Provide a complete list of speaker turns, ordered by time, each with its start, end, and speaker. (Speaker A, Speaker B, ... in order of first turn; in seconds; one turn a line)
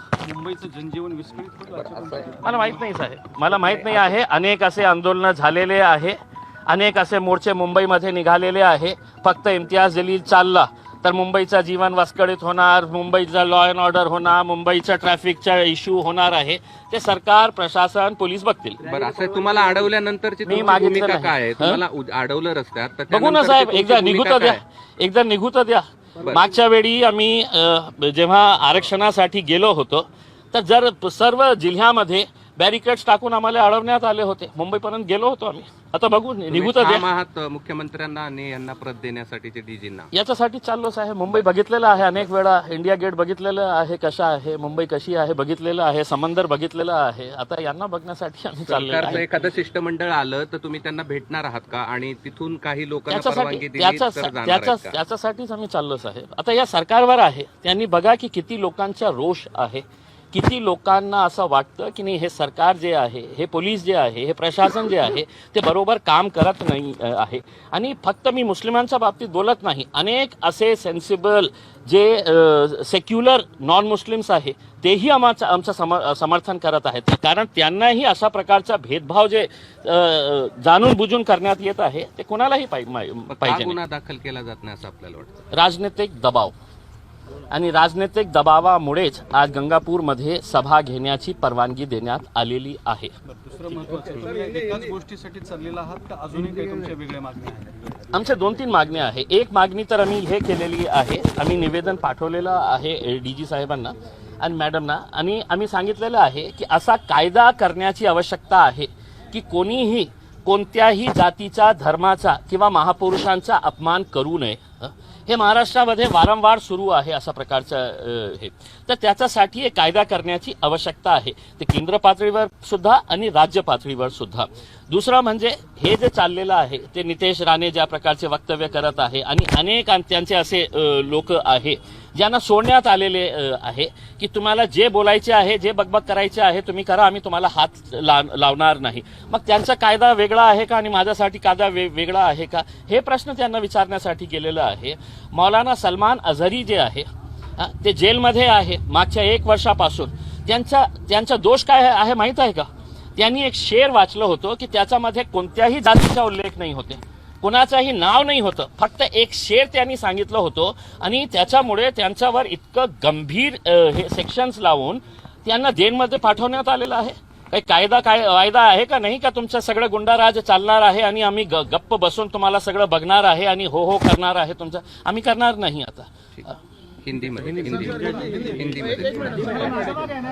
Speaker A: 0.2-2.9
Speaker B: 2.4-18.8
Speaker C: 18.8-24.6
Speaker B: 20.5-21.8
Speaker B: 23.1-37.1
Speaker C: 36.5-40.1
Speaker B: 40.1-49.2
Speaker C: 48.7-54.9
Speaker B: 53.1-83.8
Speaker C: 83.3-85.3
Speaker B: 85.5-86.5
Speaker B: 87.5-93.1
Speaker A: 93.3-98.1
Speaker B: 98.1-147.1
Speaker B: 147.6-176.6
Speaker C: 177.0-179.9